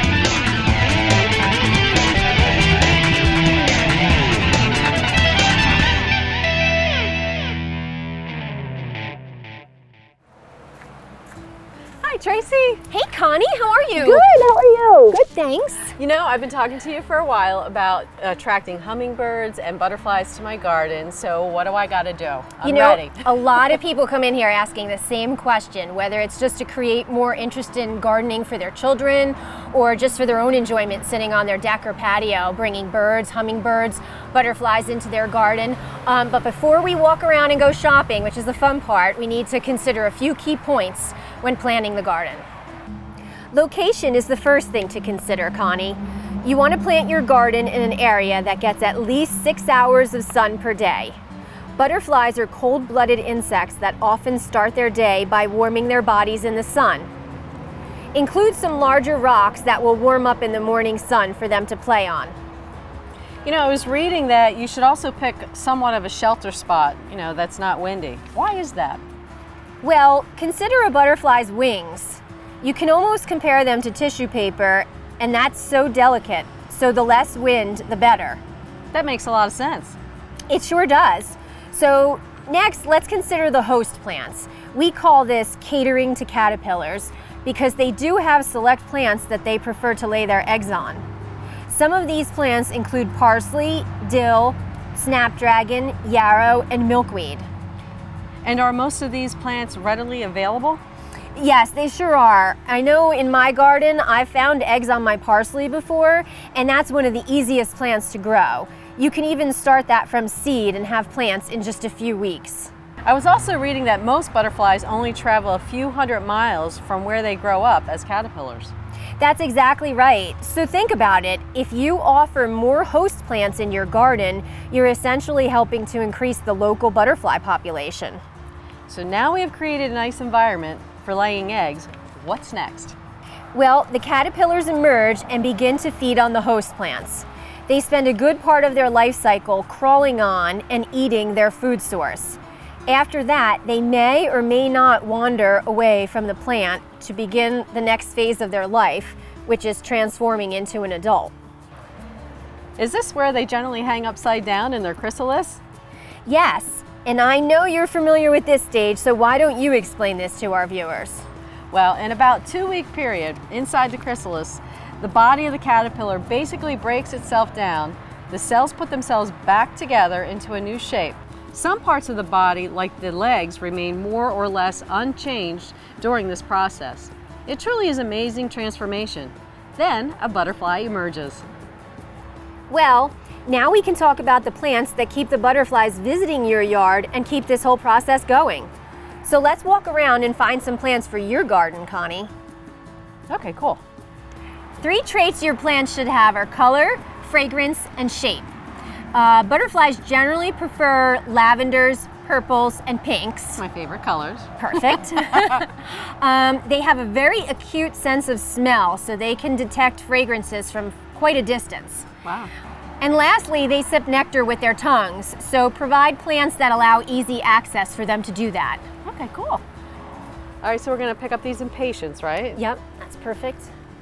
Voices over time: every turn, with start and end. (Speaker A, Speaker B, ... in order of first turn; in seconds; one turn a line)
Speaker A: 12.0-12.8
Speaker B: 12.9-15.9
Speaker A: 14.0-15.1
Speaker A: 16.0-23.2
Speaker B: 22.6-42.5
Speaker B: 43.5-51.2
Speaker B: 51.8-57.1
Speaker B: 58.1-62.4
Speaker A: 63.4-69.0
Speaker B: 69.8-78.4
Speaker A: 78.9-80.0
Speaker B: 80.5-91.1
Speaker B: 91.7-97.5
Speaker A: 98.4-100.8
Speaker B: 101.3-112.7
Speaker A: 113.0-118.7
Speaker B: 119.2-128.2
Speaker A: 128.9-133.0
Speaker B: 133.5-151.3
Speaker A: 152.8-155.6
Speaker B: 156.2-161.3
Speaker A: 161.7-181.4
Speaker B: 182.7-188.7
Speaker B: 189.2-192.3
Speaker A: 193.3-193.8
Speaker B: 194.8-198.5
Speaker B: 199.1-203.6
Speaker A: 203.6-205.6
Speaker B: 204.6-212.1
Speaker A: 212.2-212.5
Speaker B: 213.0-218.8
Speaker A: 219.1-219.6
Speaker A: 220.6-222.6
Speaker B: 222.6-223.7